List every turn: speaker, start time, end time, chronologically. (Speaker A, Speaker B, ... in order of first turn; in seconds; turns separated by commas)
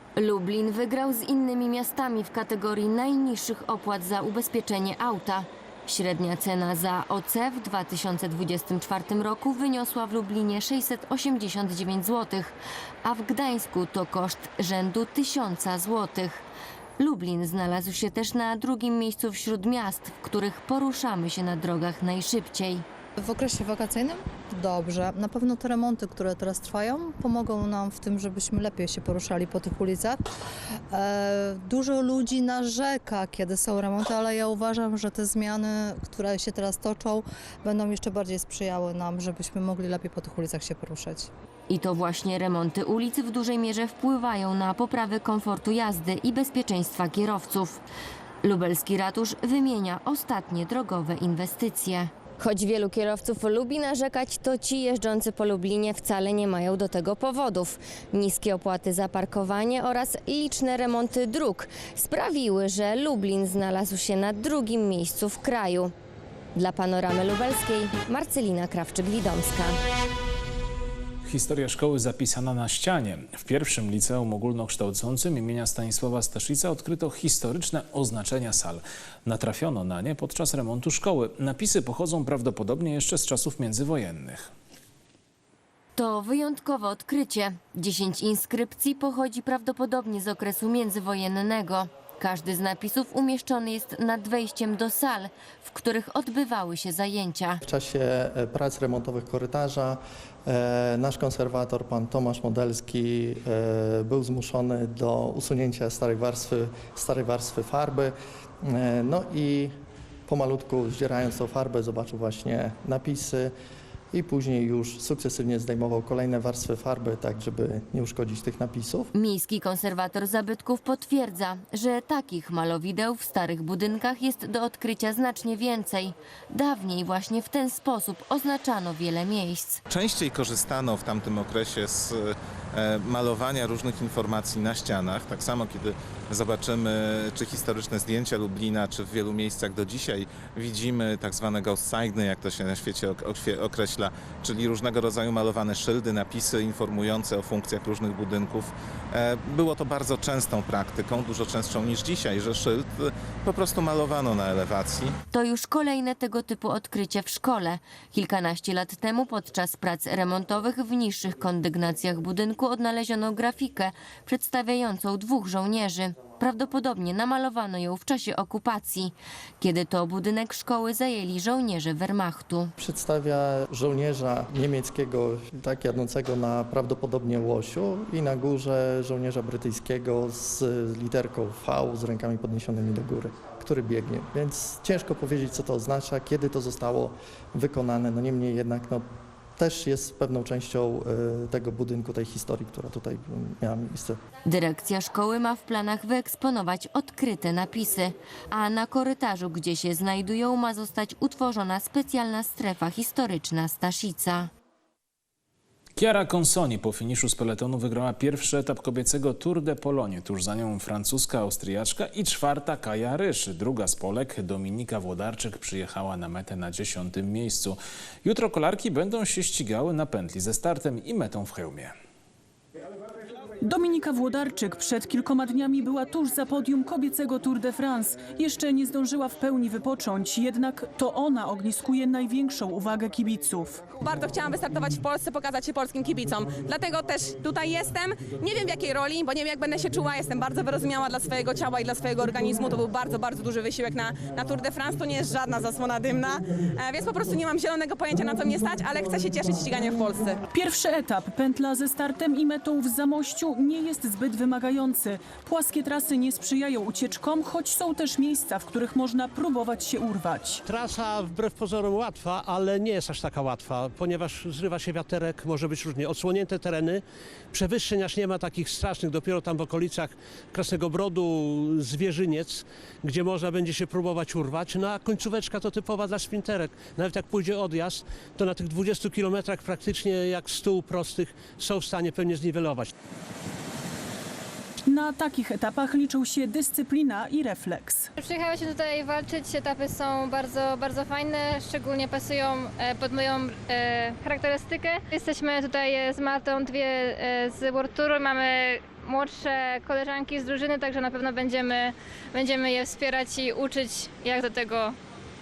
Speaker A: 0.2-16.4, Speaker A: 17.0-22.9, Speaker B: 23.2-30.2, Speaker B: 30.9-41.3, Speaker A: 41.7-47.8, Speaker A: 48.4-65.9, Speaker A: 66.5-69.8, Speaker C: 71.2-84.5, Speaker A: 86.0-97.6, Speaker D: 97.7-108.1, Speaker D: 108.7-109.8, Speaker D: 110.3-113.5, Speaker D: 114.1-119.1, Speaker A: 119.1-129.8, Speaker E: 129.9-155.1, Speaker A: 155.3-172.7, Speaker D: 172.8-189.0, Speaker D: 189.6-194.2, Speaker A: 194.4-204.5, Speaker C: 206.0-221.9, Speaker F: 223.6-233.8, Speaker G: 234.0-250.4, Speaker F: 250.5-260.6, Speaker H: 260.7-282.9, Speaker F: 284.9-288.1, Speaker I: 288.2-305.0